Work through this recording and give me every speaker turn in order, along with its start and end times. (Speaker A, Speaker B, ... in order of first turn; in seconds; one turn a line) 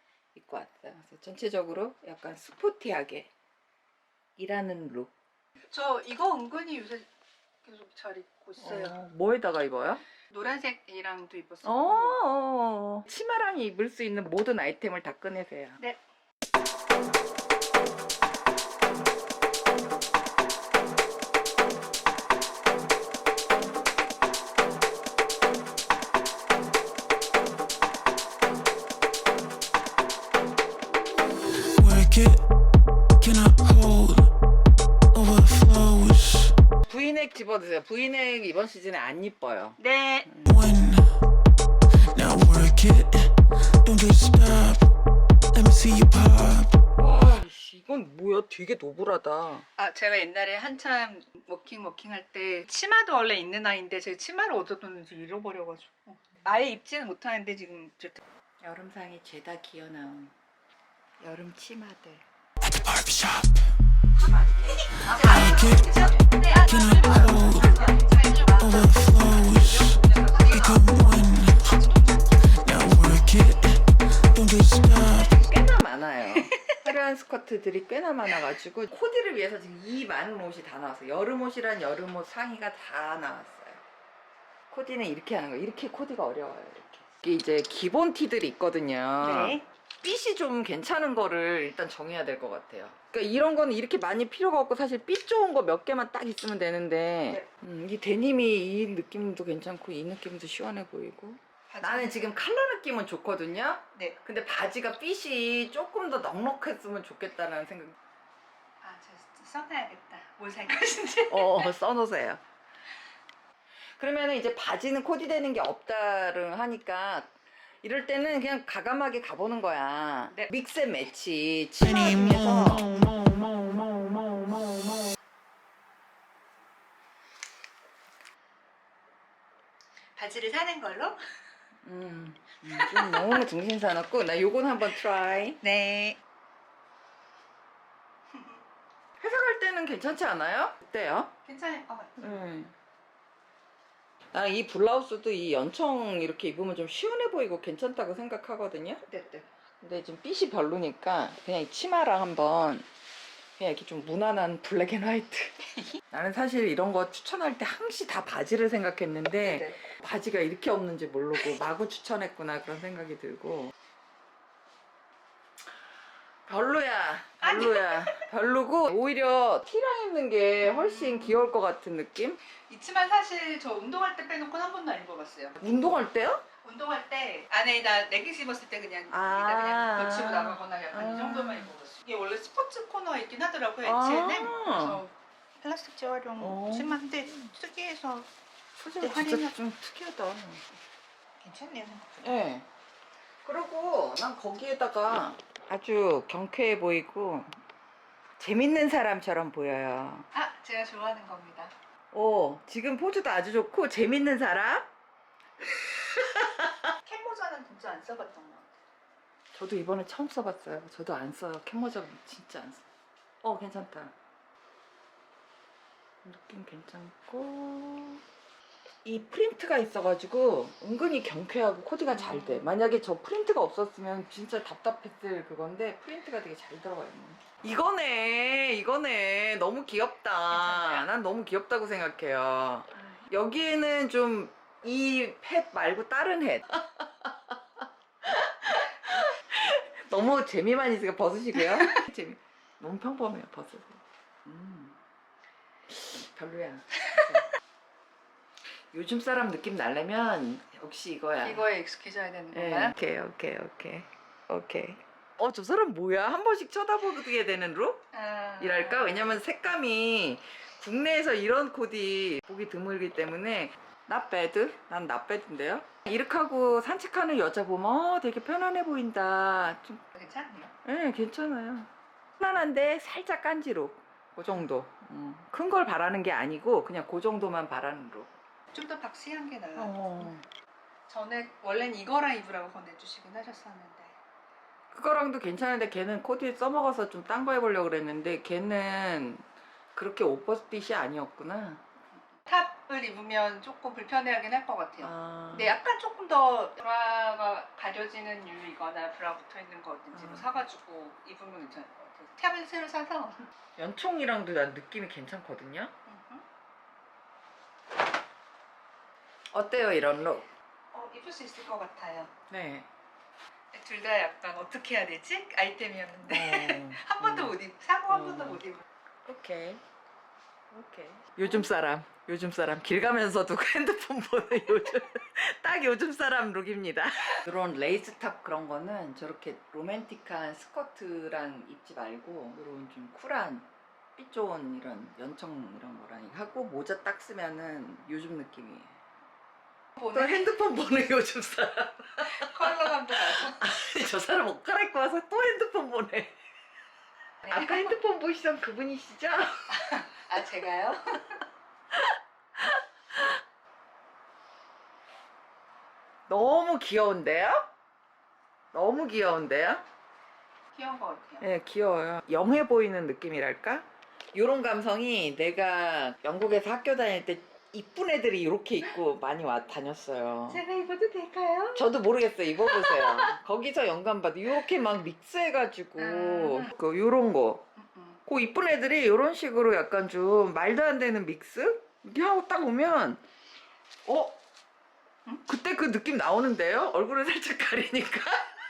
Speaker A: 0.3-3.3
Speaker A: 4.4-5.1
Speaker B: 5.7-7.1
Speaker B: 7.6-9.0
Speaker A: 8.6-10.0
Speaker B: 10.3-12.2
Speaker A: 11.6-15.8
Speaker C: 31.7-32.4
Speaker C: 33.2-34.3
Speaker C: 35.1-36.5
Speaker A: 36.9-40.6
Speaker B: 39.8-40.3
Speaker C: 40.5-41.0
Speaker C: 42.1-43.3
Speaker C: 43.8-44.9
Speaker C: 45.5-46.8
Speaker A: 47.0-49.6
Speaker B: 49.8-58.2
Speaker A: 58.6-60.3
Speaker A: 61.2-62.2
Speaker C: 62.7-63.5
Speaker B: 64.9-72.6
Speaker C: 65.3-65.8
Speaker C: 66.7-67.6
Speaker C: 68.6-71.6
Speaker C: 72.6-75.3
Speaker A: 75.2-83.8
Speaker B: 76.4-76.7
Speaker A: 84.7-108.0
Speaker B: 89.2-89.7
Speaker B: 101.7-102.3
Speaker B: 108.8-111.7
Speaker A: 111.3-112.4
Speaker A: 114.0-123.0
Speaker B: 130.1-131.2
Speaker A: 131.8-135.6
Speaker B: 132.7-133.4
Speaker B: 135.6-136.2
Speaker B: 138.3-138.6
Speaker A: 139.2-141.3
Speaker B: 141.4-142.4
Speaker A: 142.2-142.7
Speaker A: 144.3-149.0
Speaker B: 149.1-149.5
Speaker A: 149.8-152.9
Speaker A: 153.6-163.7
Speaker B: 159.4-159.8
Speaker A: 166.5-172.4
Speaker B: 167.4-168.2
Speaker B: 170.6-171.4
Speaker B: 172.6-175.6
Speaker A: 175.6-176.4
Speaker B: 176.6-188.3
Speaker A: 179.1-181.7
Speaker A: 183.8-185.0
Speaker A: 186.4-187.1
Speaker A: 188.8-190.6
Speaker B: 188.9-189.6
Speaker B: 191.4-192.4
Speaker A: 192.2-192.7
Speaker A: 193.4-197.5
Speaker A: 198.4-200.3
Speaker B: 200.3-201.7
Speaker A: 202.1-204.9
Speaker A: 205.7-206.9
Speaker B: 207.0-208.7
Speaker A: 209.5-212.8
Speaker A: 213.4-214.1
Speaker A: 216.2-218.2
Speaker A: 219.0-237.5
Speaker B: 222.2-222.7
Speaker B: 230.5-231.1
Speaker A: 238.2-245.0
Speaker A: 245.9-247.4
Speaker A: 248.9-251.7
Speaker B: 251.4-252.9
Speaker A: 252.5-258.0
Speaker B: 258.1-259.4
Speaker A: 258.6-270.0
Speaker B: 270.1-270.7
Speaker A: 270.8-278.3
Speaker B: 278.7-280.3
Speaker A: 279.8-280.4
Speaker B: 281.1-284.2
Speaker A: 284.9-291.8
Speaker B: 292.5-303.5
Speaker A: 295.0-295.7
Speaker A: 300.1-300.4
Speaker A: 303.8-305.9
Speaker B: 306.1-306.4
Speaker A: 309.5-310.5
Speaker B: 310.9-312.3
Speaker A: 312.5-312.9
Speaker B: 313.7-318.8
Speaker A: 316.3-317.5
Speaker A: 318.1-318.6
Speaker A: 319.2-319.8
Speaker A: 320.7-338.9
Speaker B: 321.4-321.7
Speaker A: 340.0-346.4
Speaker B: 342.2-343.6
Speaker A: 347.5-349.8
Speaker B: 349.7-351.4
Speaker A: 351.9-353.4
Speaker A: 356.3-357.7
Speaker A: 358.7-359.8
Speaker B: 360.7-361.4
Speaker A: 361.4-370.6
Speaker B: 370.5-371.9
Speaker A: 371.8-377.6
Speaker B: 372.6-373.4
Speaker B: 376.0-376.7
Speaker B: 377.8-378.2
Speaker A: 378.2-383.2
Speaker A: 384.1-384.4
Speaker A: 385.4-388.5